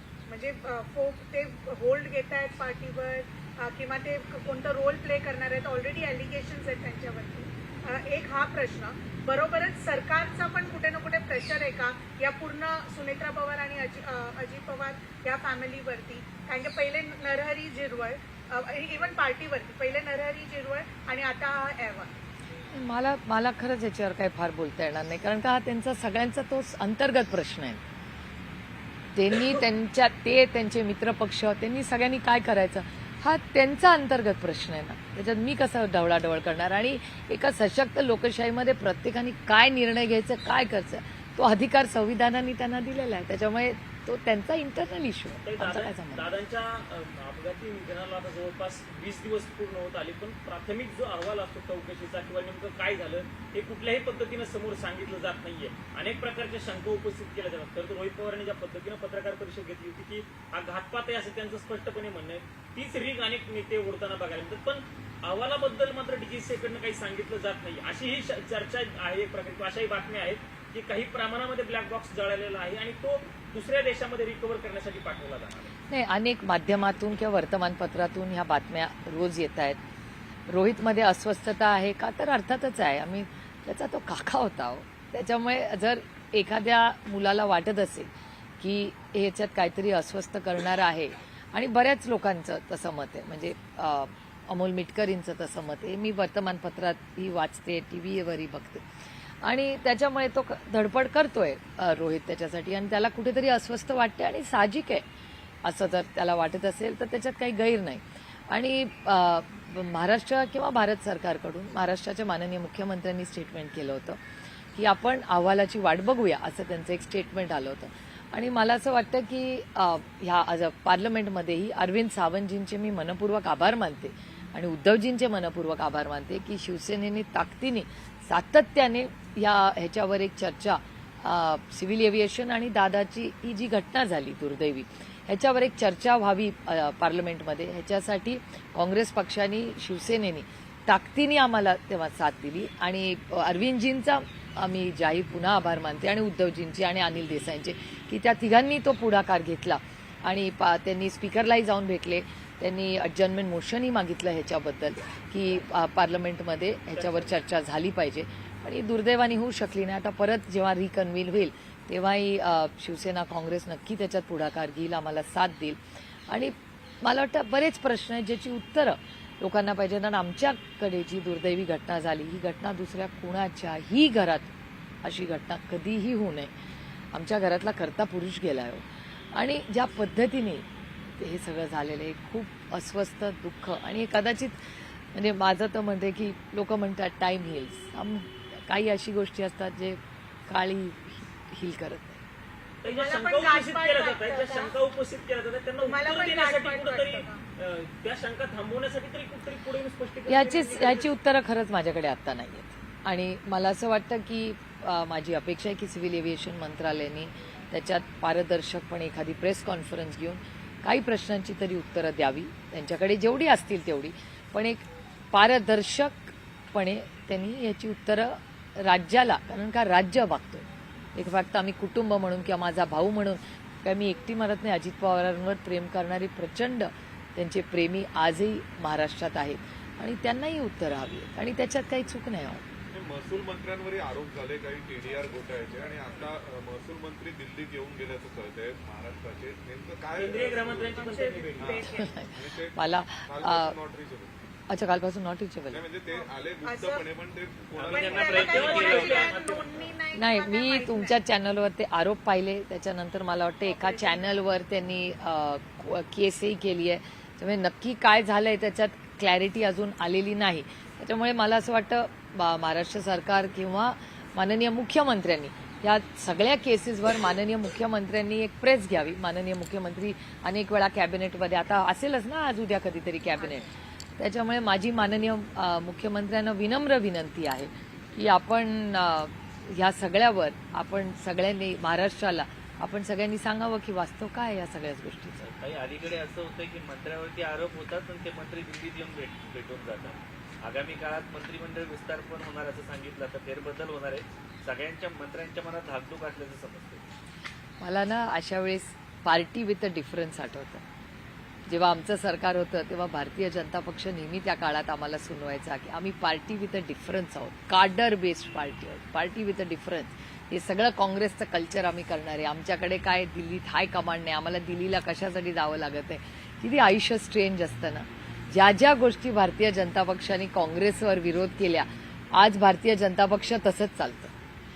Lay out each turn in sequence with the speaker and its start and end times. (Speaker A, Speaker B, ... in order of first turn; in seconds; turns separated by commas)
Speaker A: 0.3-22.1, Speaker B: 22.7-27.8, Speaker B: 29.1-46.3, Speaker C: 45.4-75.7, Speaker B: 75.9-79.8, Speaker B: 80.5-98.8, Speaker B: 99.4-105.0, Speaker B: 105.6-114.2, Speaker B: 114.8-176.5, Speaker C: 156.9-157.3, Speaker B: 177.1-180.7, Speaker B: 181.2-192.2, Speaker C: 192.8-201.1, Speaker A: 192.8-194.7, Speaker A: 195.8-197.4, Speaker B: 200.3-232.7, Speaker D: 232.9-244.3, Speaker C: 240.1-241.8, Speaker A: 240.3-242.1, Speaker B: 241.9-243.8, Speaker B: 244.7-245.8, Speaker D: 245.7-249.1, Speaker A: 246.1-247.1, Speaker E: 247.8-249.4, Speaker A: 247.9-251.2, Speaker C: 248.3-249.8, Speaker B: 250.2-285.5, Speaker A: 253.7-254.3, Speaker E: 285.4-297.1, Speaker B: 297.8-300.8, Speaker B: 301.7-324.3